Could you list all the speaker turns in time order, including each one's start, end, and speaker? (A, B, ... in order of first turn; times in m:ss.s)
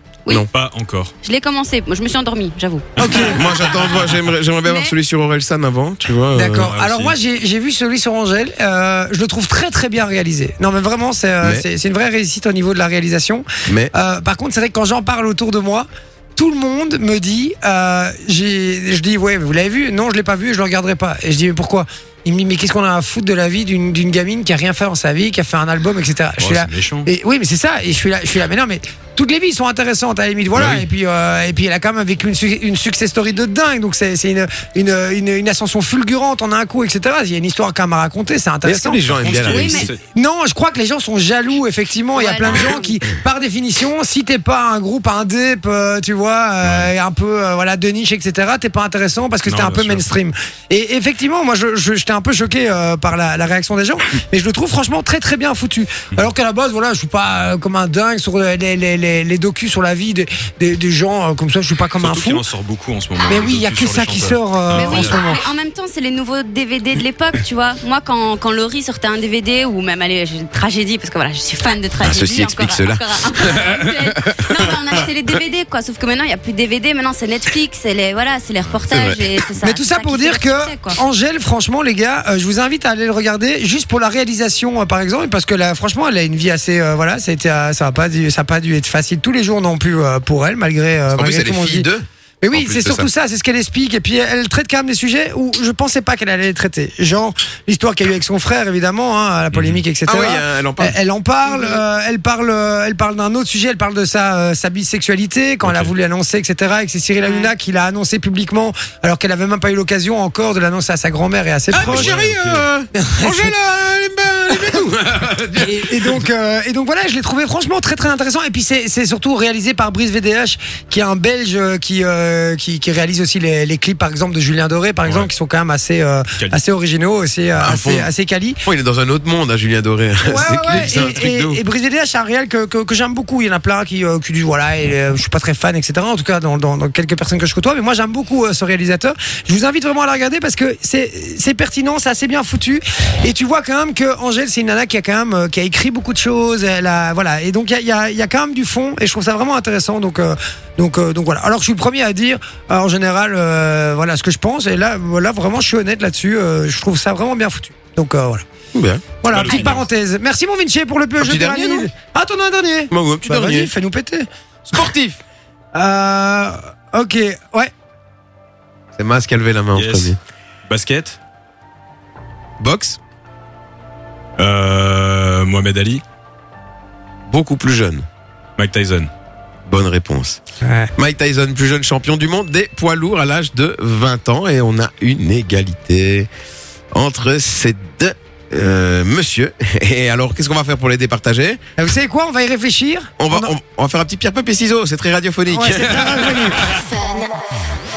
0:00.5-0:01.1 A
0:01.2-0:04.1 B
0:03.0-0:04.1 A
0:03.0-0:03.4 C
0:03.3-0:06.8 D
0:04.6-0:04.9 B
0:06.3-1:02.4 C
0:06.6-0:07.2 A
0:13.7-0:13.9 D
0:26.4-0:27.1 A
0:30.6-0:30.8 D
0:38.6-0:39.8 D
0:39.2-0:40.0 A
0:39.4-0:39.9 B
0:42.2-0:43.0 B
0:46.6-0:46.9 A
0:49.4-0:50.0 A
1:02.0-1:05.3 A
1:03.3-1:05.4 C
1:04.7-1:21.0 B
1:12.0-1:14.8 D
1:18.9-1:19.3 D
1:19.6-1:31.9 C
1:31.1-1:33.1 D
1:32.4-1:52.3 C
1:39.5-1:39.8 A
1:40.1-1:41.0 D
1:41.5-1:41.8 B
1:45.6-1:45.9 A
1:47.2-1:47.5 B
1:51.7-1:56.3 D
1:51.8-1:52.7 A
1:52.9-1:53.5 C
1:54.6-1:54.8 C
1:55.6-2:08.6 C
2:07.6-2:08.1 D
2:08.6-2:11.6 D
2:10.2-2:38.4 C
2:10.7-2:11.1 A
2:38.7-2:39.0 D
2:39.2-2:44.3 C
2:39.3-2:39.9 A
2:39.5-2:39.7 B
2:41.2-2:41.9 D
2:42.9-2:43.7 D
2:44.7-2:45.2 D
2:45.7-2:47.7 C
2:49.0-2:50.2 D
2:49.8-2:50.2 A
2:50.7-2:51.2 A
2:52.6-2:53.0 D
2:54.4-2:56.0 A
2:57.3-2:58.0 D
2:58.6-2:59.1 A
2:59.7-3:00.4 D
3:00.6-3:00.9 C
3:01.0-3:06.3 D
3:06.9-3:11.6 D
3:11.8-3:13.5 C
3:13.2-3:16.6 D
3:15.5-3:16.8 C